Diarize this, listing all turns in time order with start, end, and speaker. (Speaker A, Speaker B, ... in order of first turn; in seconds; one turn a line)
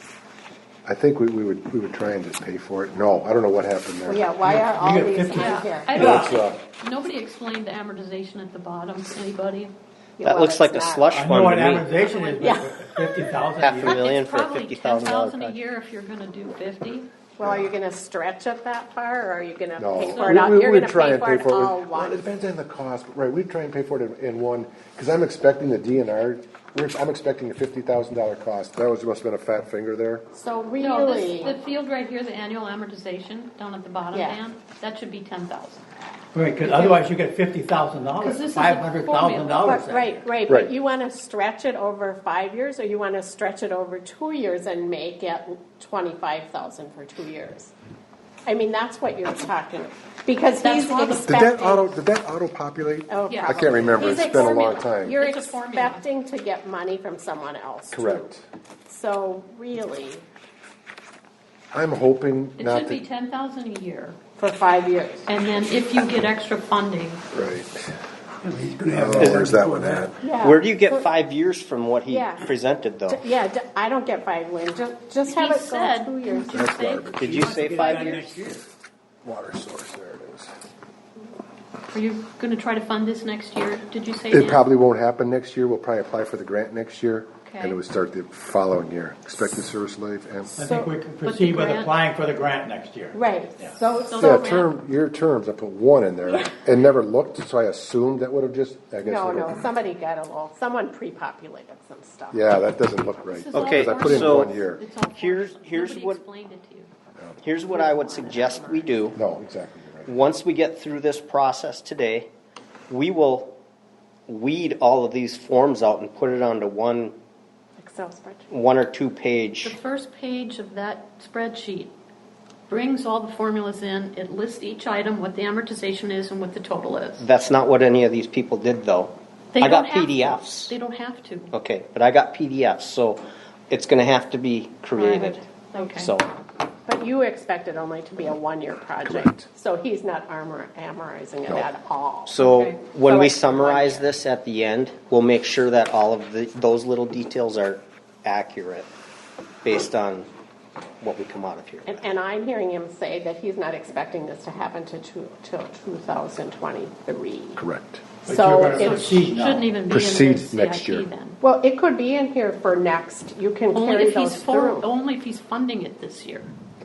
Speaker A: 0.8-4.3
Speaker B: 4.0-6.3
Speaker C: 4.4-6.4
Speaker D: 5.3-9.7
Speaker A: 6.0-6.6
Speaker B: 10.2-11.1
Speaker E: 10.2-11.9
Speaker C: 11.1-14.0
Speaker D: 12.0-12.5
Speaker B: 12.4-13.3
Speaker E: 13.6-15.6
Speaker D: 13.8-17.1
Speaker B: 17.4-22.2
Speaker A: 17.4-17.7
Speaker A: 19.8-30.2
Speaker D: 19.9-20.5
Speaker B: 30.3-31.6
Speaker D: 30.8-35.9
Speaker B: 34.1-34.4
Speaker C: 36.3-40.2
Speaker D: 36.6-36.9
Speaker D: 38.2-39.8
Speaker B: 39.6-47.7
Speaker B: 48.5-52.0
Speaker D: 50.6-51.8
Speaker A: 51.2-55.1
Speaker B: 53.1-58.3
Speaker D: 53.3-56.0
Speaker A: 57.9-58.4
Speaker B: 58.9-60.2
Speaker A: 61.7-63.0
Speaker D: 62.6-64.2
Speaker B: 64.4-65.3
Speaker D: 65.3-67.2
Speaker A: 67.3-67.9
Speaker C: 68.4-70.1
Speaker A: 68.9-70.2
Speaker B: 70.2-71.1
Speaker E: 70.4-73.2
Speaker B: 72.1-72.5
Speaker B: 73.1-76.7
Speaker D: 75.3-77.2
Speaker A: 76.5-77.6
Speaker E: 77.2-78.2
Speaker C: 77.2-78.7
Speaker D: 77.7-78.4
Speaker A: 79.2-80.5
Speaker D: 81.9-84.6
Speaker A: 84.3-90.6
Speaker D: 87.4-87.8
Speaker C: 90.6-93.8
Speaker B: 90.6-90.9
Speaker D: 91.2-91.9
Speaker B: 93.1-94.5
Speaker D: 94.0-94.7
Speaker A: 94.1-99.7
Speaker B: 99.0-102.4
Speaker A: 102.3-104.8
Speaker D: 103.3-106.9
Speaker E: 103.5-104.5
Speaker E: 105.1-106.2
Speaker E: 107.4-109.2
Speaker B: 107.6-108.9
Speaker A: 109.1-110.1
Speaker E: 110.0-112.3
Speaker E: 112.9-113.5
Speaker E: 114.3-117.1
Speaker B: 117.8-118.5
Speaker E: 118.5-119.8
Speaker D: 119.6-121.9
Speaker D: 122.7-127.2
Speaker E: 127.2-130.7
Speaker D: 129.5-131.5
Speaker E: 131.5-136.3
Speaker D: 134.9-136.1
Speaker B: 136.9-142.4
Speaker A: 139.0-139.3
Speaker E: 142.3-148.9
Speaker D: 142.4-142.8
Speaker B: 143.0-144.1
Speaker E: 149.6-150.3
Speaker E: 151.0-152.0
Speaker B: 151.8-157.6
Speaker A: 157.6-158.1
Speaker B: 158.2-159.3
Speaker C: 158.2-159.7
Speaker D: 158.7-161.4
Speaker A: 159.9-161.1
Speaker B: 161.4-164.8
Speaker D: 163.7-166.5